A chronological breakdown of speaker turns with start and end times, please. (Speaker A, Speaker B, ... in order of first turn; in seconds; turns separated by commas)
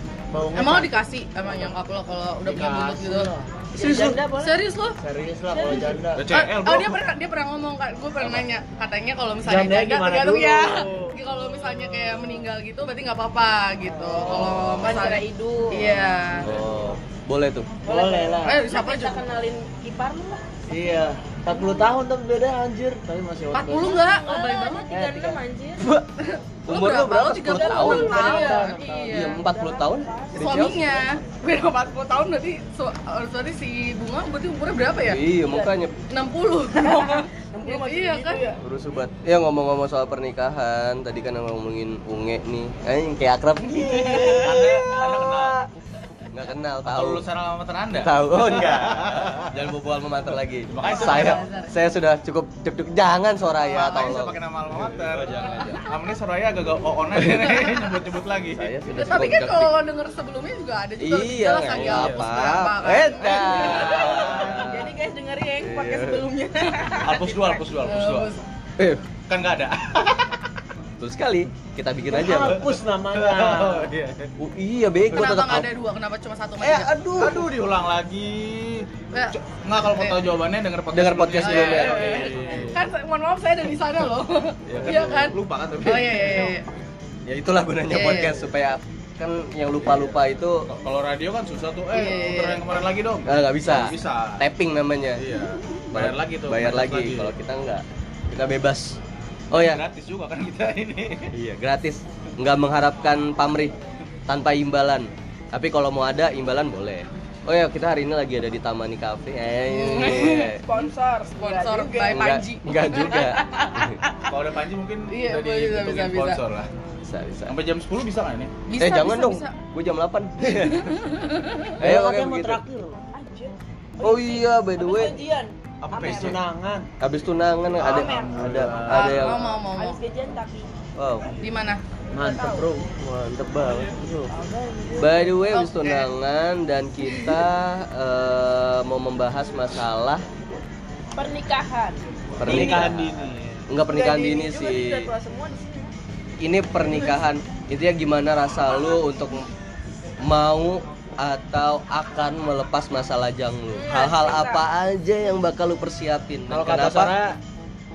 Speaker A: 0.3-1.0, Speaker B: 0.6-3.3, Speaker A: 2.5-4.2, Speaker C: 3.8-4.6, Speaker B: 4.4-5.0, Speaker A: 5.0-6.3, Speaker C: 5.5-6.0, Speaker D: 6.2-7.0, Speaker B: 6.3-16.5, Speaker A: 9.4-11.1, Speaker A: 13.9-15.1, Speaker C: 14.2-16.1, Speaker D: 14.5-14.8, Speaker A: 16.4-16.9, Speaker E: 16.4-17.7, Speaker C: 17.8-20.4, Speaker A: 17.9-18.6, Speaker B: 18.4-19.2, Speaker A: 20.7-23.9, Speaker B: 23.5-24.9, Speaker C: 23.8-25.9, Speaker E: 24.9-26.1, Speaker B: 26.4-29.4, Speaker E: 26.7-31.0, Speaker C: 27.5-30.6, Speaker A: 28.1-29.0, Speaker B: 30.3-35.3, Speaker E: 35.1-35.9, Speaker B: 36.1-38.4, Speaker C: 36.8-38.6, Speaker E: 38.6-45.7, Speaker D: 44.3-45.6, Speaker E: 46.3-47.2, Speaker D: 46.9-49.4, Speaker E: 47.9-55.8, Speaker D: 50.7-51.4, Speaker B: 50.8-51.7, Speaker D: 53.7-58.7, Speaker E: 58.5-59.7, Speaker B: 58.9-64.0, Speaker E: 61.0-64.9, Speaker D: 61.9-62.2, Speaker D: 63.7-64.6, Speaker C: 63.7-67.6, Speaker E: 65.6-66.3, Speaker D: 67.0-68.3, Speaker B: 67.8-68.4, Speaker E: 68.8-69.1, Speaker D: 69.3-70.3, Speaker E: 71.0-72.7, Speaker A: 72.1-73.9, Speaker D: 72.4-74.3, Speaker E: 74.4-75.7, Speaker B: 75.1-76.9, Speaker E: 76.6-77.5, Speaker D: 77.2-78.9, Speaker D: 79.4-82.8, Speaker B: 79.9-80.2, Speaker E: 80.9-82.6, Speaker B: 81.4-86.7, Speaker D: 84.7-86.5, Speaker E: 84.7-85.3, Speaker E: 85.8-86.3, Speaker E: 87.3-90.7, Speaker B: 87.9-88.4, Speaker D: 89.8-94.4, Speaker B: 91.9-92.7, Speaker E: 93.3-95.2, Speaker D: 95.2-97.3, Speaker E: 95.9-99.0, Speaker E: 99.5-99.8, Speaker D: 99.5-101.3, Speaker E: 101.3-103.8, Speaker E: 104.3-110.6, Speaker B: 109.7-110.6, Speaker C: 110.1-112.4, Speaker B: 111.4-113.4, Speaker E: 112.1-114.0, Speaker D: 114.3-116.7, Speaker B: 115.1-116.4, Speaker E: 117.0-117.5, Speaker D: 117.5-118.5, Speaker B: 118.7-119.5, Speaker E: 118.8-121.0, Speaker B: 120.6-121.8, Speaker E: 121.8-122.6, Speaker A: 121.8-123.0, Speaker C: 123.1-126.4, Speaker E: 124.0-125.2, Speaker D: 125.8-126.4, Speaker A: 126.0-126.9, Speaker E: 127.0-129.4, Speaker D: 127.8-129.2, Speaker C: 127.8-130.7, Speaker A: 128.4-128.9, Speaker B: 128.9-130.0, Speaker E: 131.0-131.3, Speaker B: 131.4-131.8, Speaker A: 132.1-132.9, Speaker C: 132.2-132.7, Speaker E: 133.0-134.3, Speaker C: 134.3-135.3, Speaker E: 135.0-140.2, Speaker B: 135.5-136.1, Speaker C: 141.2-142.9, Speaker E: 142.4-143.1, Speaker A: 142.4-143.6, Speaker E: 143.7-145.1, Speaker C: 143.9-145.9, Speaker E: 146.4-149.4, Speaker E: 150.2-157.2, Speaker C: 153.7-154.7, Speaker A: 156.5-157.4